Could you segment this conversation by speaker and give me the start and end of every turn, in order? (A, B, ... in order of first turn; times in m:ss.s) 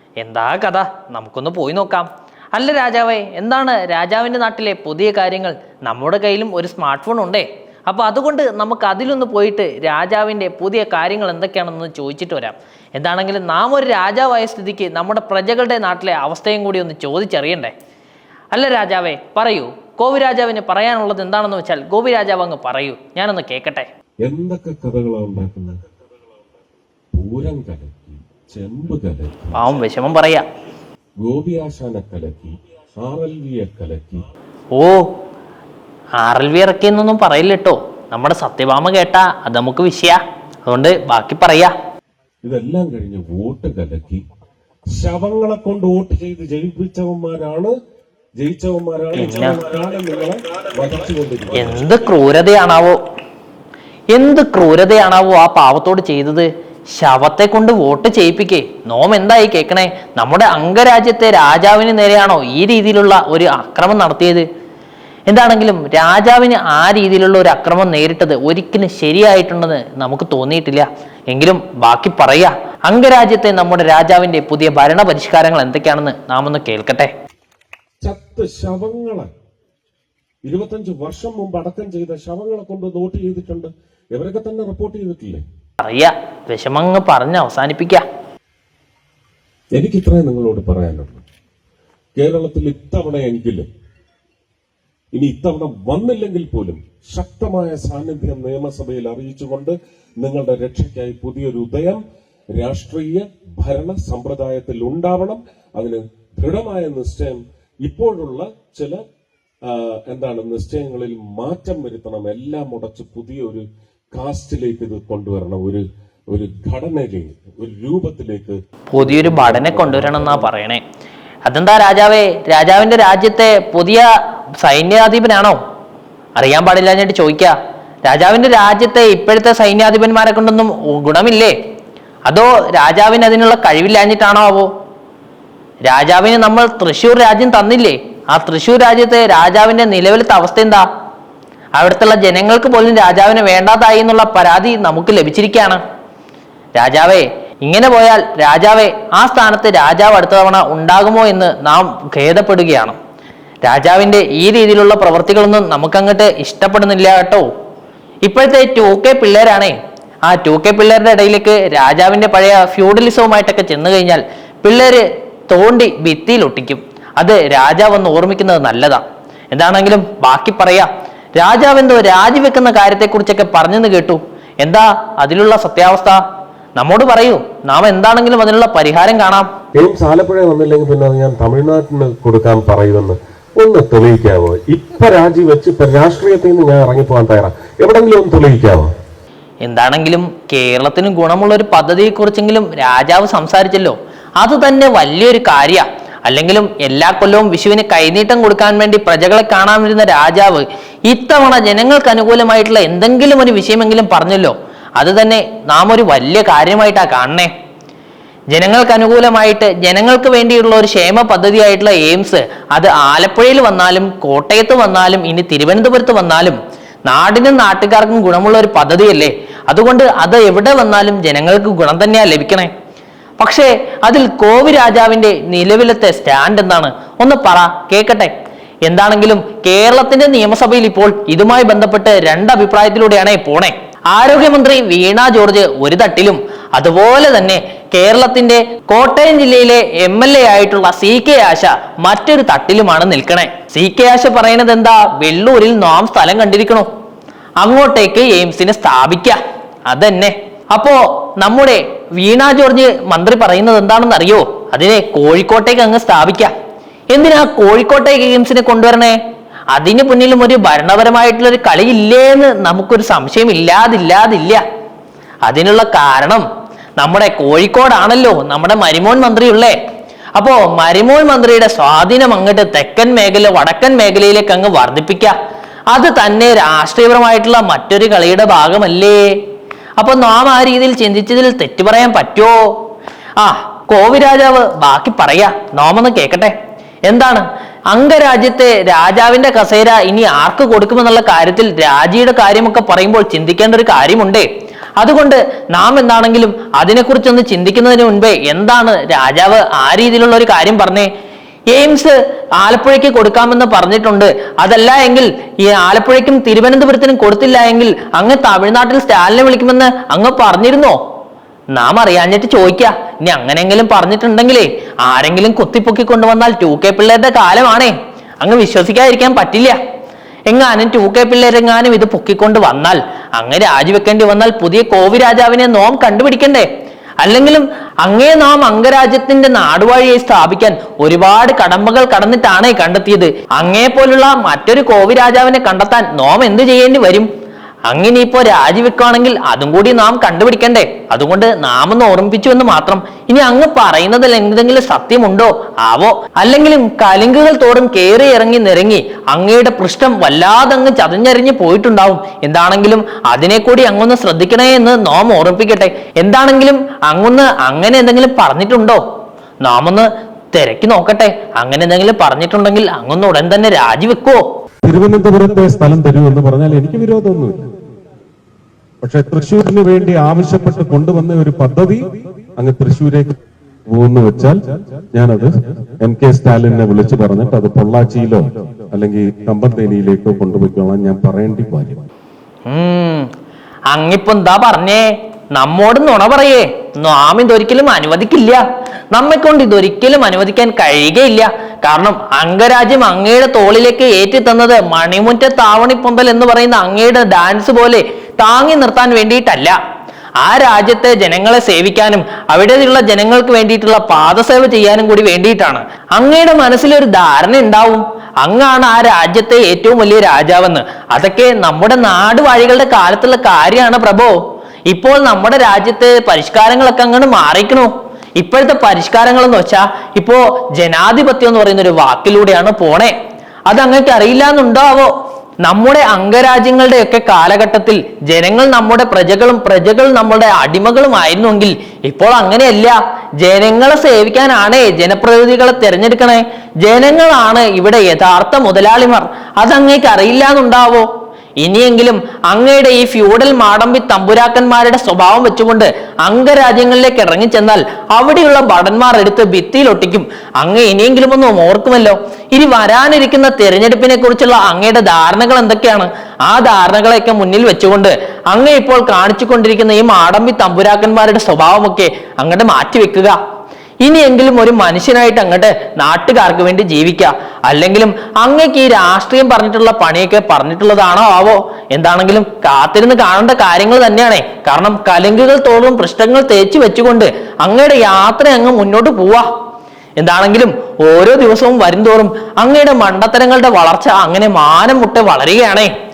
0:00.2-0:17.7 A
0:18.5-0:23.9 A
0:24.2-0:25.8 B
0:27.1-0:29.7 B
0:29.5-0:30.4 A
0:31.2-0:34.2 B
0:34.7-0:35.1 A
0:36.2-0:41.7 A
0:42.4-0:44.2 B
0:44.9-0:47.8 B
0:48.4-0:51.8 B
0:49.1-0:49.6 A
0:51.5-0:53.0 A
0:54.1-1:04.4 A
1:05.3-1:17.1 A
1:18.0-1:19.3 B
1:20.4-1:25.4 B
1:25.8-1:28.0 A
1:29.7-1:31.2 B
1:32.2-1:33.7 B
1:35.2-1:42.0 B
1:42.5-1:49.0 B
1:50.1-1:55.8 B
1:56.4-1:58.6 B
1:58.9-2:00.8 A
1:59.1-1:59.9 B
1:59.9-2:00.3 C
2:01.4-2:05.6 A
2:06.4-2:11.5 A
2:12.3-2:14.7 A
2:15.9-2:20.8 A
2:21.8-2:25.8 A
2:26.8-2:33.0 A
2:33.6-2:37.4 A
2:38.2-2:56.2 A
2:56.8-2:59.5 A
2:59.8-3:08.9 B
3:09.6-3:27.5 A
3:28.5-3:42.7 A
3:43.4-3:48.3 A
3:48.8-4:06.9 A
4:07.6-4:16.5 A
4:17.1-4:19.2 A
4:19.7-4:24.6 A
4:25.4-4:26.4 A
4:27.0-4:29.8 A
4:30.4-4:35.3 A
4:35.9-4:39.4 A
4:40.0-4:42.6 A
4:43.4-4:46.5 A
4:47.1-4:54.5 A
4:55.0-5:01.1 A
5:01.7-5:11.0 A
5:11.7-5:19.8 A
5:20.5-5:26.7 A
5:27.2-5:37.3 A
5:37.9-5:59.0 A
5:59.6-6:04.4 A
6:04.8-6:07.6 C
6:09.0-6:12.0 C
6:12.6-6:13.3 C
6:13.9-6:14.6 C
6:15.1-6:15.5 C
6:16.0-6:22.0 C
6:22.7-6:23.3 A
6:23.9-6:39.8 A
6:40.4-6:54.3 A
6:54.9-7:03.1 A
7:03.7-7:05.1 A
7:05.6-7:21.1 A
7:21.6-7:43.4 A
7:44.0-7:59.5 A
8:00.2-8:05.9 A